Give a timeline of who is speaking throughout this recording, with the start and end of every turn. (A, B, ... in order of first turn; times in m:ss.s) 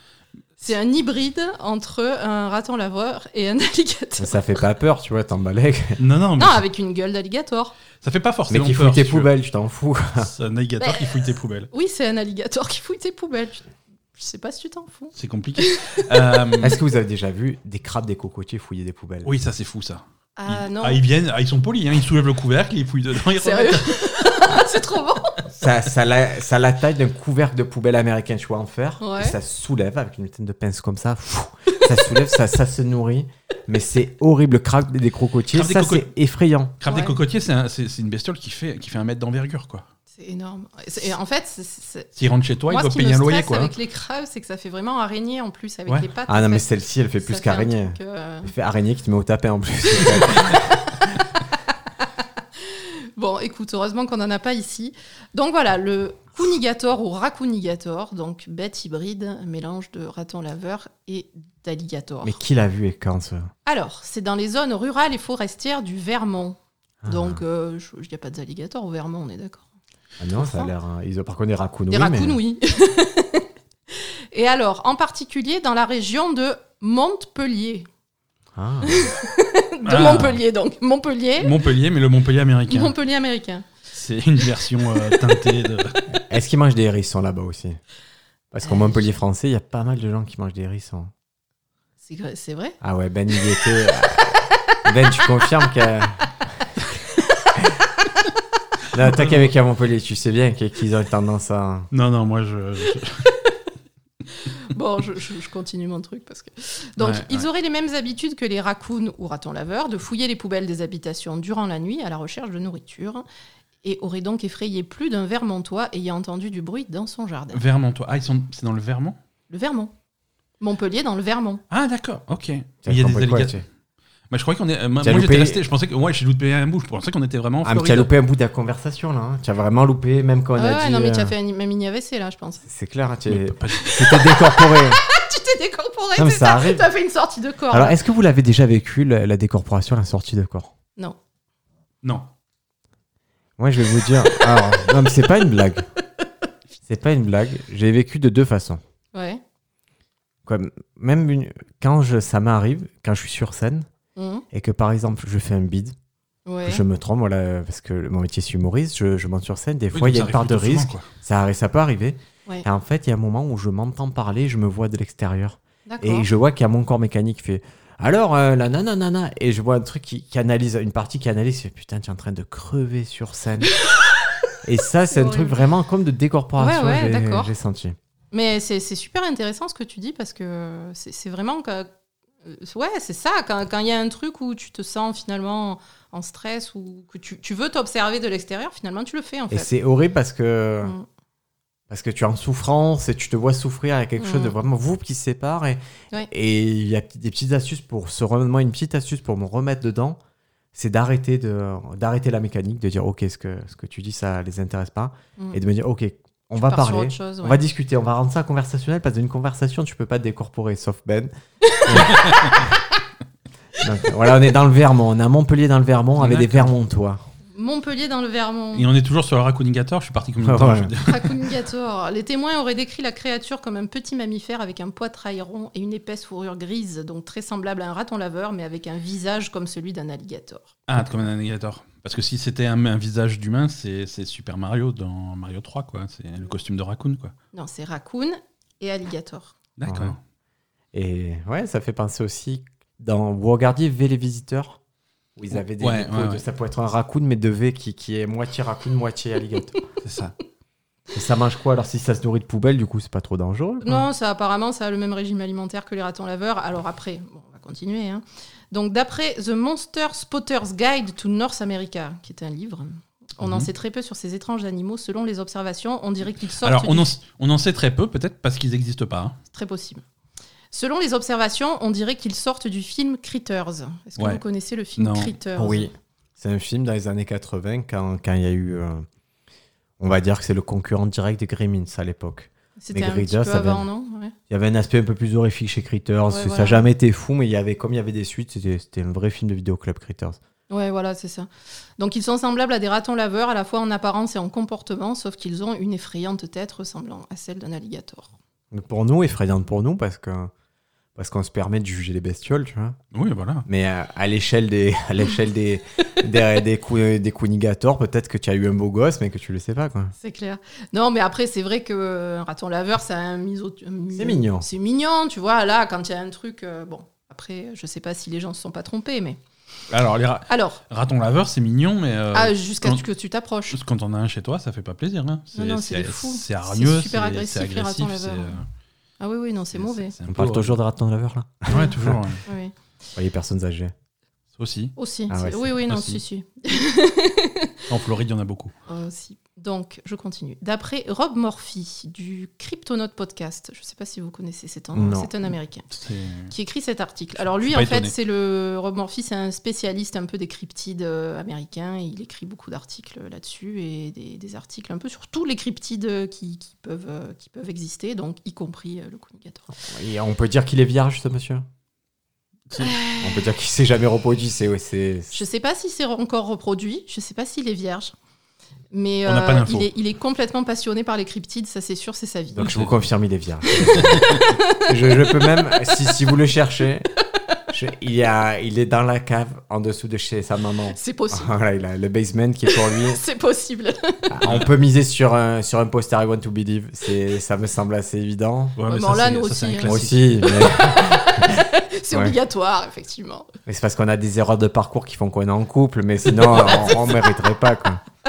0:00.6-0:04.4 A
0:04.2-0:06.0 B
0:06.0-0:06.6 C
0:06.4-0:07.7 A
0:08.0-0:09.3 C
0:08.5-0:10.3 B
0:10.2-0:11.7 C
0:10.8-0:16.4 A
0:15.1-0:16.8 C
0:16.6-0:19.3 B
0:19.2-0:24.4 C
0:20.4-0:21.0 A
0:23.4-0:25.4 A
0:25.5-0:36.8 B
0:29.0-0:29.4 A
0:35.5-0:36.1 C
0:36.8-0:39.9 C
0:36.8-0:37.2 A
0:40.1-0:42.1 A
0:42.2-0:43.7 C
0:42.7-0:46.7 A
0:46.3-0:51.2 B
0:47.2-0:48.5 A
0:49.9-0:51.1 A
0:52.6-1:02.4 A
1:02.2-1:03.5 B
1:03.6-1:09.6 A
1:07.0-1:07.4 B
1:10.2-1:12.4 B
1:10.4-1:10.7 A
1:11.9-1:17.9 A
1:18.6-1:19.2 B
1:18.8-1:21.6 A
1:19.8-1:20.4 C
1:21.4-1:22.9 C
1:22.7-1:23.7 A
1:23.9-1:26.0 C
1:26.1-1:27.8 B
1:28.5-1:31.1 B
1:28.6-1:29.0 A
1:32.0-1:32.8 A
1:32.8-1:36.4 B
1:34.5-1:34.8 A
1:38.9-1:41.9 B
1:39.2-1:39.4 C
1:41.9-1:43.3 C
1:44.4-1:53.2 A
1:47.0-1:47.5 C
1:53.8-1:57.6 A
1:57.5-1:59.2 C
1:59.5-1:59.9 A
2:00.6-2:01.6 A
2:01.7-2:03.6 C
2:02.8-2:03.6 B
2:04.3-2:08.1 C
2:05.0-2:05.6 B
2:07.6-2:11.3 B
2:10.6-2:12.6 A
2:12.6-2:15.0 B
2:13.3-2:14.0 C
2:13.8-2:18.0 A
2:16.2-2:16.9 B
2:17.7-2:20.7 B
2:23.6-2:25.9 B
2:24.3-2:24.8 A
2:26.8-2:28.8 B
2:29.1-2:29.4 A
2:30.4-2:33.9 B
2:34.2-2:34.4 A
2:34.5-2:35.9 B
2:36.4-2:36.8 A
2:36.6-2:53.8 B
2:39.9-2:41.1 C
2:45.9-2:46.3 A
2:54.6-2:58.0 B
2:55.1-2:55.6 A
2:56.6-2:57.5 A
2:58.3-3:01.9 A
3:02.4-3:09.7 A
3:09.5-3:10.9 B
3:11.9-3:20.2 B
3:14.2-3:14.6 A
3:20.7-3:31.3 B
3:26.6-3:27.6 A
3:31.6-3:32.8 A
3:31.8-3:32.2 B
3:32.0-3:32.6 C
3:33.8-3:37.2 B
3:36.2-3:36.7 C
3:37.5-3:38.9 A
3:38.7-3:41.5 C
3:40.4-3:40.9 B
3:41.0-3:50.7 A
3:50.9-3:57.3 C
3:57.5-3:59.6 A
3:59.8-4:00.2 C
3:59.8-4:00.2 B
4:00.9-4:04.8 B
4:05.4-4:09.8 B
4:05.5-4:06.4 C
4:10.0-4:10.3 C
4:11.1-4:14.0 B
4:13.8-4:27.1 A
4:23.4-4:23.7 C
4:26.6-4:29.4 C
4:29.5-4:30.0 A
4:30.7-4:35.9 A
4:35.0-4:35.4 C
4:35.6-4:39.0 B
4:40.0-4:43.8 B
4:42.8-4:44.3 A
4:44.5-4:50.4 B
4:46.3-4:46.9 A
4:50.7-4:58.3 A
4:58.7-5:00.5 B
5:01.2-5:03.0 B
5:03.1-5:03.6 C
5:03.6-5:10.1 B
5:10.2-5:19.4 A
5:14.1-5:14.6 B
5:19.9-5:23.0 C
5:20.5-5:20.8 A
5:22.3-5:23.8 A
5:23.7-5:28.6 C
5:25.5-5:28.6 A
5:29.2-5:30.1 A
5:29.7-5:30.8 C
5:30.3-5:32.2 B
5:31.7-5:32.4 C
5:31.7-5:32.7 A
5:33.2-5:33.9 B
5:34.6-5:34.9 C
5:35.0-5:37.9 A
5:35.3-5:35.7 B
5:35.9-5:36.2 C
5:37.9-5:38.7 C
5:38.9-5:45.9 A
5:44.9-5:45.3 B
5:45.9-5:46.5 C
5:46.5-5:59.7 A
5:47.5-5:48.1 C
5:59.8-6:01.6 B
6:02.7-6:02.9 C
6:02.8-6:03.5 A
6:03.2-6:05.4 B
6:05.3-6:08.1 A
6:08.9-6:12.8 A
6:09.2-6:09.9 C
6:12.5-6:17.1 B
6:12.6-6:12.9 C
6:13.8-6:16.1 A
6:13.8-6:14.4 C
6:17.7-6:23.2 B
6:20.9-6:21.5 A
6:22.7-6:24.4 A
6:24.3-6:28.8 B
6:24.4-6:24.7 C
6:28.8-6:30.6 C
6:28.9-6:33.5 A
6:29.8-6:32.4 B
6:33.6-6:38.0 B
6:36.5-6:37.3 A